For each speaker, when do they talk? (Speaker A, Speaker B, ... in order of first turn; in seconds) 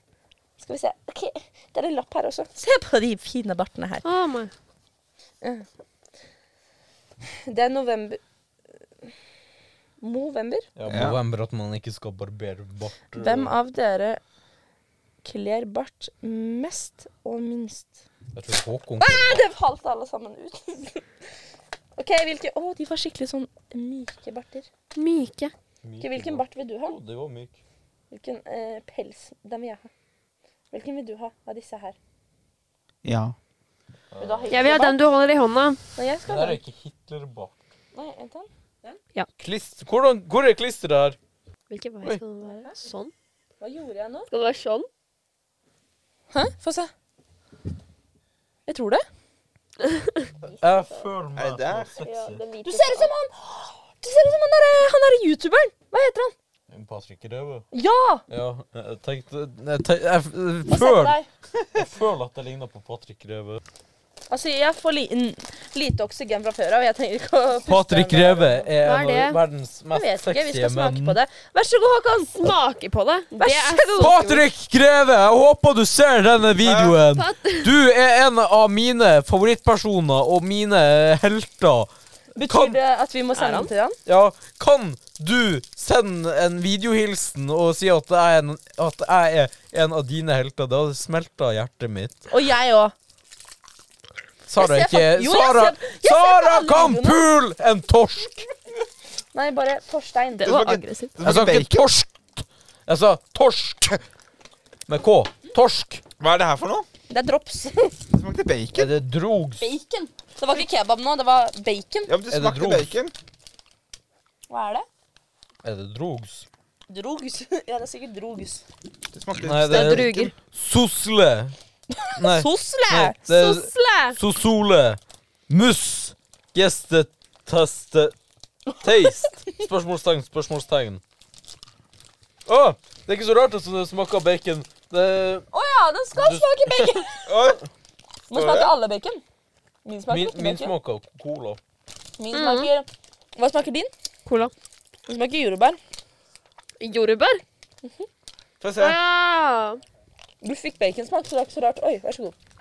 Speaker A: 0.6-4.0, 7.5-8.2, 10.0-10.7, 13.2-14.2, 15.2-18.0, 19.0-21.0, 22.0-24.7, 26.0-27.0, 28.1-29.9, 30.7-31.9, 34.2-35.0, 35.9-36.6, 37.9-39.0, 42.4-42.8, 43.6-44.3, 46.3-46.9, 48.7-49.0, 52.6-56.3, 57.7-58.2, 60.7-61.3, 64.3-68.7, 69.9-72.3, 73.4-74.2, 82.3-84.0, 92.3-92.9, 94.5-97.2, 99.3-100.7, 107.1-108.0, 109.6-112.1, 114.5-114.8, 116.9-118.6, 122.0-124.2, 135.5-137.3, 138.3-139.2, 139.8-140.7, 142.2-143.9, 145.1-145.8, 150.4-152.3
Speaker B: 4.0-4.5, 24.9-25.5, 34.5-35.8, 41.7-43.1, 44.3-44.9, 49.8-50.3, 52.0-53.1, 68.8-69.4, 72.4-74.4, 77.1-77.7, 83.3-83.7, 100.4-101.1, 119.7-120.3, 142.3-142.7, 144.2-144.5, 146.8-147.4, 148.8-149.8
Speaker C: 10.8-13.5, 18.3-19.4, 25.8-27.6, 34.1-34.8, 36.3-37.6, 39.4-41.1, 50.4-52.4, 56.7-57.7, 58.3-61.1, 61.7-63.6, 67.7-71.2, 74.0-82.8, 84.0-92.2, 94.5-98.5, 101.2-104.0, 104.9-106.0, 108.7-109.7, 112.3-112.9, 115.6-116.5, 119.3-121.5, 122.2-128.2, 128.8-131.0, 132.4-135.4, 136.2-136.9, 140.1-141.6
Speaker D: 10.9-11.2, 33.0-33.3, 51.4-51.9, 76.6-77.0, 100.4-101.8, 106.2-106.9, 108.1-108.9, 112.1-113.1, 119.1-120.1, 137.3-137.6, 138.3-138.7, 148.6-149.0